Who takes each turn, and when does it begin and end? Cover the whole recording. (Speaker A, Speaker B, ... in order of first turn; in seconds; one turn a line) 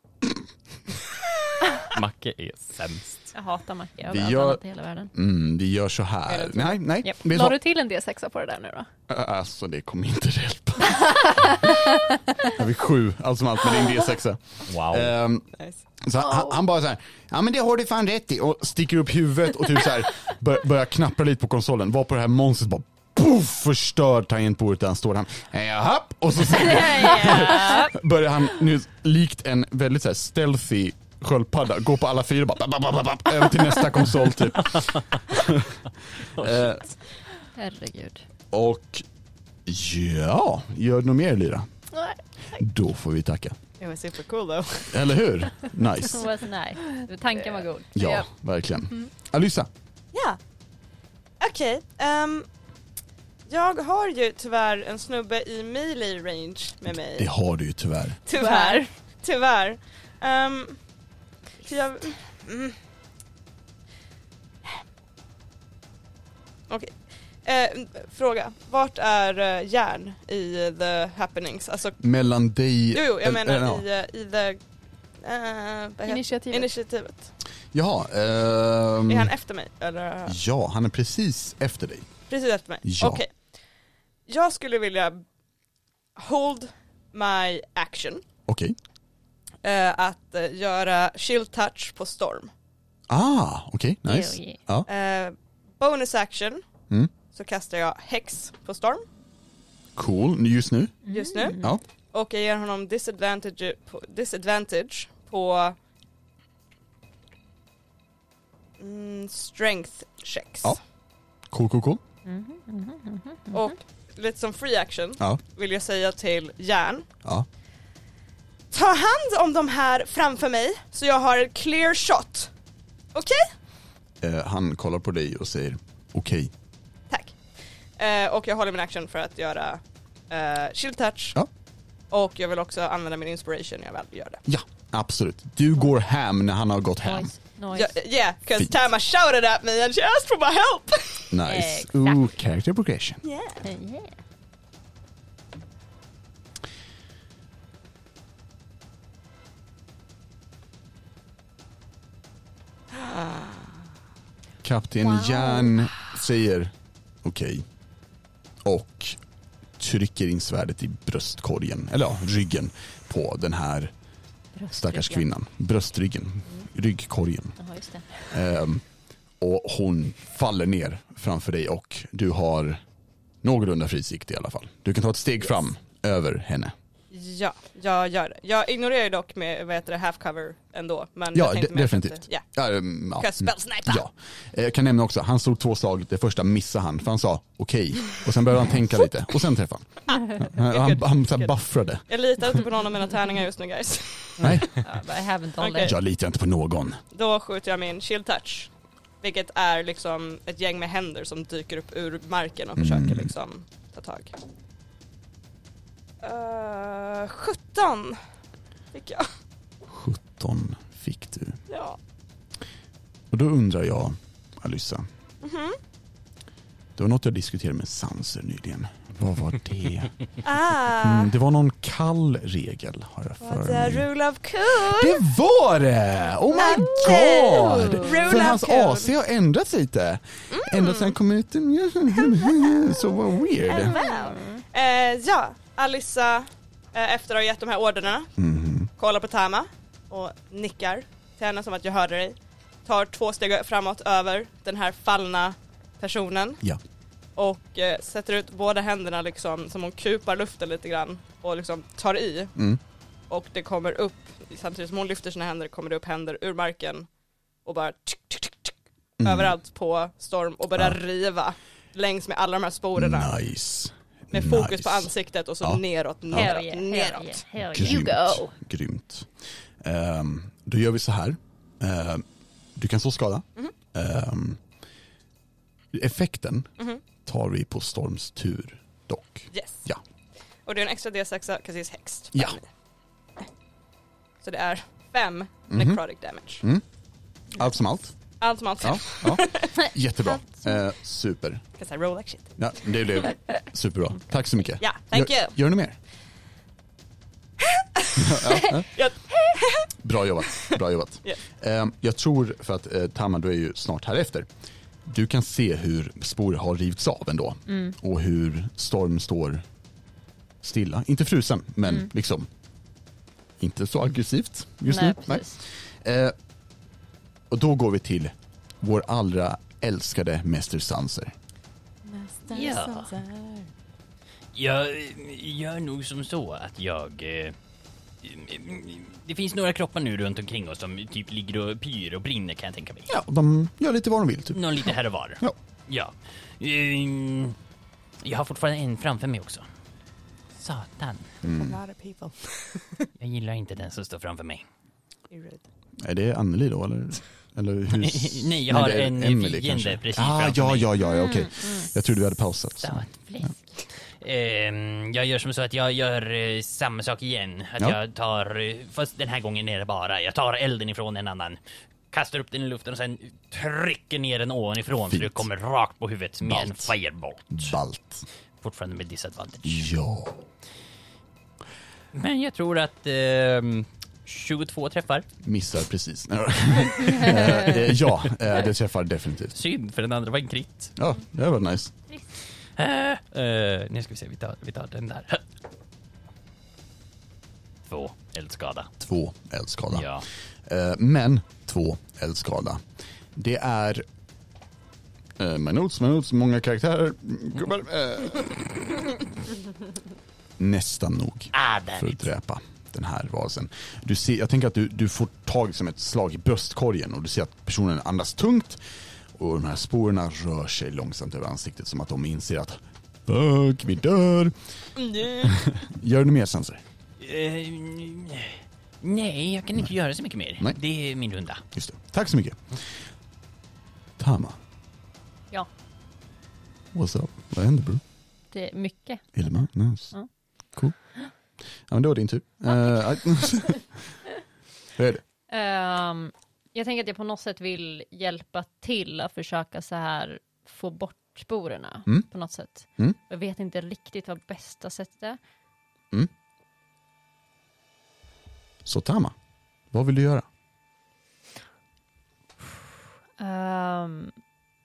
Speaker A: 1.9-3.3
Speaker B: 3.3-5.1
Speaker C: 4.1-4.6
Speaker C: 5.1-7.6
Speaker D: 6.3-6.8
Speaker E: 7.2-8.9
Speaker C: 9.1-11.7
Speaker C: 12.4-15.4
Speaker A: 14.7-15.2
Speaker C: 16.0-35.8
Speaker E: 16.2-16.6
Speaker B: 26.6-27.9
Speaker C: 36.4-36.8
Speaker A: 36.4-36.7
Speaker B: 37.6-38.3
Speaker C: 38.5-39.0
Speaker C: 39.7-41.7
Speaker E: 41.9-42.2
Speaker C: 42.6-43.6
Speaker D: 43.8-45.0
Speaker C: 44.9-46.3
Speaker B: 46.1-48.1
Speaker C: 47.9-49.7
Speaker E: 48.0-48.2
Speaker D: 50.1-50.4
Speaker D: 51.4-52.5
Speaker D: 53.5-57.3
Speaker C: 57.1-58.2
Speaker D: 58.3-60.8
Speaker E: 58.4-58.9
Speaker D: 61.6-62.8
Speaker D: 66.7-72.0
Speaker C: 72.0-73.8
Speaker D: 72.9-74.6
Speaker D: 75.2-77.3
Speaker E: 76.1-76.7
Speaker C: 77.7-79.3
Speaker D: 79.1-80.4
Speaker C: 80.3-82.1
Speaker D: 82.3-83.3
Speaker C: 82.8-83.2
Speaker D: 84.3-85.2
Speaker D: 86.2-88.2
Speaker C: 88.5-88.8
Speaker D: 89.6-92.5
Speaker C: 93.1-94.9
Speaker B: 94.1-94.6
Speaker D: 94.9-96.7
Speaker D: 97.3-99.0
Speaker C: 100.0-101.0
Speaker B: 101.1-101.7
Speaker D: 101.1-101.6
Speaker D: 102.1-105.8
Speaker D: 108.8-110.8
Speaker C: 111.5-112.0
Speaker B: 112.2-113.8
Speaker D: 113.5-117.1
Speaker D: 118.7-122.5
Speaker D: 123.1-123.5
Speaker C: 124.2-126.5
Speaker D: 127.1-127.4
Speaker D: 128.0-131.4
Speaker D: 132.1-134.4
Speaker C: 134.5-137.3
Speaker B: 137.0-137.9
Speaker D: 137.7-141.3
Speaker C: 141.3-143.2
Speaker B: 141.4-142.3
Speaker D: 143.2-143.6
Speaker B: 143.6-144.1
Speaker D: 152.9-153.7
Speaker C: 154.6-157.7
Speaker C: 158.7-159.2
Speaker C: 159.8-163.9
Speaker B: 164.6-165.3
Speaker C: 164.7-167.6
Speaker B: 167.6-168.3
Speaker C: 168.3-168.8
Speaker C: 169.4-172.8
Speaker C: 173.4-176.7
Speaker D: 177.1-182.4
Speaker C: 181.3-192.0
Speaker D: 183.2-184.0
Speaker D: 190.1-191.5
Speaker D: 192.1-194.6
Speaker C: 194.4-194.7
Speaker B: 194.8-196.0
Speaker D: 195.6-195.9
Speaker C: 195.8-197.0
Speaker D: 197.1-204.3
Speaker C: 202.8-203.3
Speaker D: 206.2-208.2
Speaker D: 208.9-209.3
Speaker C: 209.9-211.6
Speaker D: 211.7-212.0
Speaker C: 213.3-215.1
Speaker D: 215.4-215.8
Speaker C: 217.0-220.2
Speaker D: 220.4-221.3
Speaker C: 220.9-224.1
Speaker D: 223.4-225.2
Speaker C: 224.8-234.0
Speaker D: 226.5-229.1
Speaker B: 227.8-228.3
Speaker D: 230.5-231.1
Speaker D: 232.3-232.9
Speaker D: 233.6-238.3
Speaker E: 234.3-234.6
Speaker C: 238.4-238.9
Speaker D: 239.0-246.6
Speaker D: 247.4-252.6
Speaker D: 253.3-257.1
Speaker D: 257.6-263.3
Speaker C: 259.2-259.6
Speaker C: 263.0-266.5
Speaker D: 264.3-267.4
Speaker B: 266.3-268.4
Speaker C: 267.7-269.3
Speaker E: 267.8-268.4
Speaker C: 269.8-272.2
Speaker C: 272.8-274.6
Speaker C: 275.9-276.7
Speaker C: 277.2-280.0
Speaker D: 279.5-279.8
Speaker D: 280.7-282.7
Speaker D: 284.4-286.6
Speaker C: 285.7-286.0
Speaker C: 287.5-288.1
Speaker D: 288.4-289.8
Speaker C: 288.8-291.6
Speaker B: 289.8-290.8
Speaker D: 291.8-292.6
Speaker C: 292.6-296.0
Speaker D: 294.8-295.6
Speaker D: 298.0-299.9
Speaker C: 298.2-298.9
Speaker C: 300.0-304.5
Speaker C: 305.1-309.6
Speaker B: 307.7-307.9
Speaker C: 310.6-312.5
Speaker C: 313.6-316.4
Speaker B: 314.9-315.6
Speaker C: 317.5-321.3
Speaker D: 322.1-323.6
Speaker F: 322.5-323.2
Speaker F: 324.5-327.6
Speaker F: 328.2-333.1
Speaker C: 333.1-335.6
Speaker F: 334.5-337.6
Speaker F: 338.2-339.7
Speaker F: 340.6-341.4
Speaker C: 341.4-341.8
Speaker D: 341.4-343.1
Speaker F: 343.2-344.6
Speaker D: 345.3-345.6
Speaker C: 346.0-353.5
Speaker F: 347.9-350.9
Speaker B: 351.0-351.9
Speaker F: 352.8-361.6
Speaker F: 362.1-367.8
Speaker C: 365.1-365.5
Speaker C: 366.4-366.9
Speaker C: 367.5-368.3
Speaker F: 368.6-369.9
Speaker C: 369.6-370.4
Speaker F: 372.1-375.3
Speaker C: 375.4-379.6
Speaker F: 379.5-381.0
Speaker C: 381.0-381.9
Speaker F: 382.8-385.4
Speaker F: 387.9-388.9
Speaker C: 389.0-392.8
Speaker F: 389.9-390.2
Speaker C: 393.4-394.1
Speaker C: 395.4-399.1
Speaker C: 400.6-408.8
Speaker F: 401.5-402.2
Speaker C: 409.4-414.5
Speaker D: 415.0-415.6
Speaker C: 415.4-416.8
Speaker F: 417.2-421.6
Speaker C: 421.7-422.8
Speaker C: 424.2-424.6
Speaker C: 426.9-428.0
Speaker B: 428.5-429.4
Speaker C: 429.4-430.1
Speaker C: 431.9-433.9
Speaker C: 435.0-435.2
Speaker B: 435.5-445.4
Speaker C: 448.9-449.4
Speaker C: 449.9-450.5
Speaker B: 453.4-454.4